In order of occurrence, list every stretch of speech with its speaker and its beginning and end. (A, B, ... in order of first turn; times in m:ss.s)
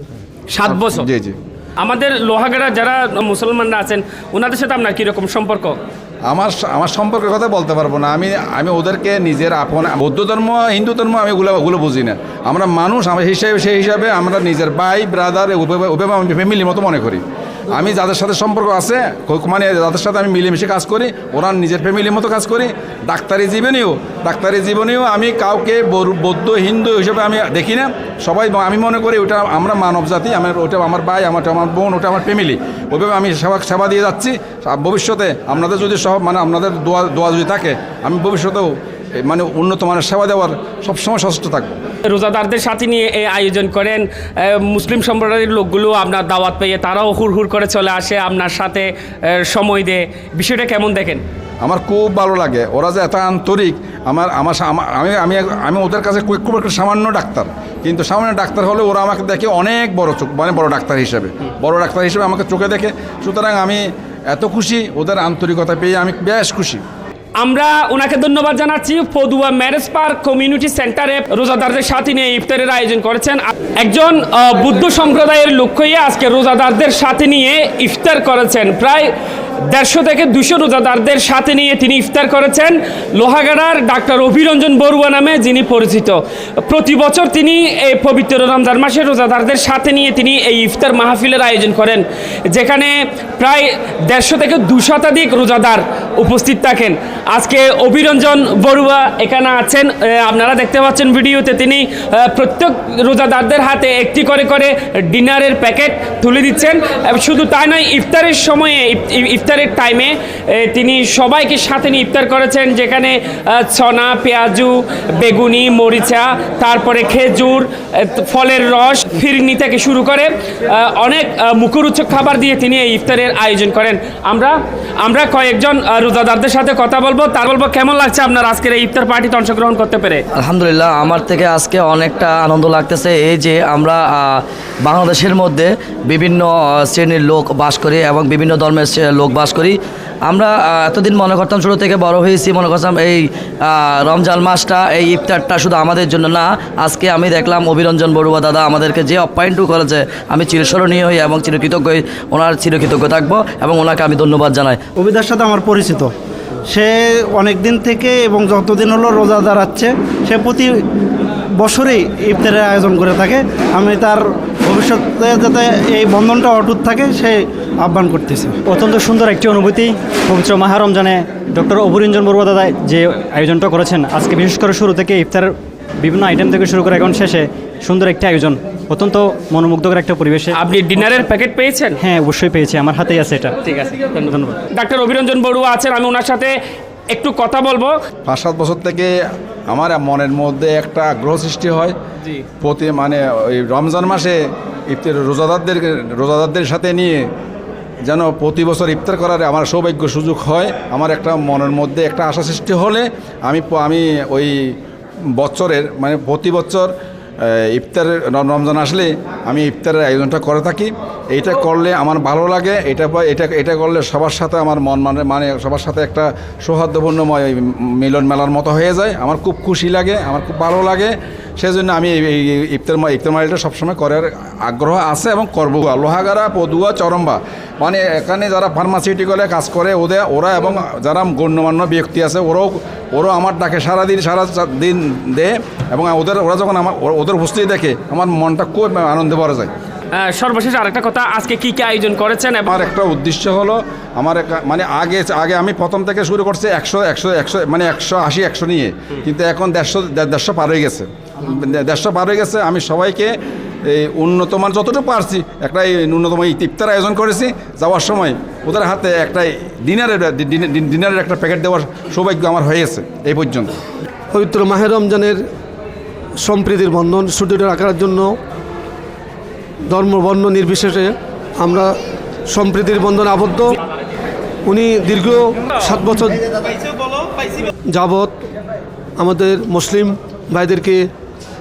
0:00.5-0:01.1 A
0:00.7-0:01.4 B
0:01.8-0:05.8 A
0:06.3-0:41.7 B
0:42.1-0:51.2 A
0:51.6-1:06.8 B
1:07.4-1:19.1 A
1:19.7-2:10.2 A
2:10.4-2:34.8 C
2:35.0-2:36.1 D
2:36.7-2:40.8 D
2:41.6-2:48.6 D
2:48.7-3:00.6 E
3:00.5-3:02.0 A
3:02.0-3:03.6 E
3:03.6-3:06.5 A
3:04.2-3:04.6 E
3:07.1-3:07.9 A
3:08.3-3:09.1 B
3:09.7-3:12.0 B
3:12.6-3:14.4 B
3:14.9-3:17.2 B
3:18.1-3:24.6 B
3:25.4-3:26.9 B
3:27.4-3:59.7 B
4:00.1-4:02.7 A
4:02.7-4:13.3 B
4:13.9-4:23.7 B
4:24.3-4:25.4 F
4:26.4-4:28.3 F
4:29.9-4:31.9 F
4:32.5-4:33.7 F
4:34.7-4:36.4 F
4:37.9-4:38.3 F
4:39.2-4:41.0 F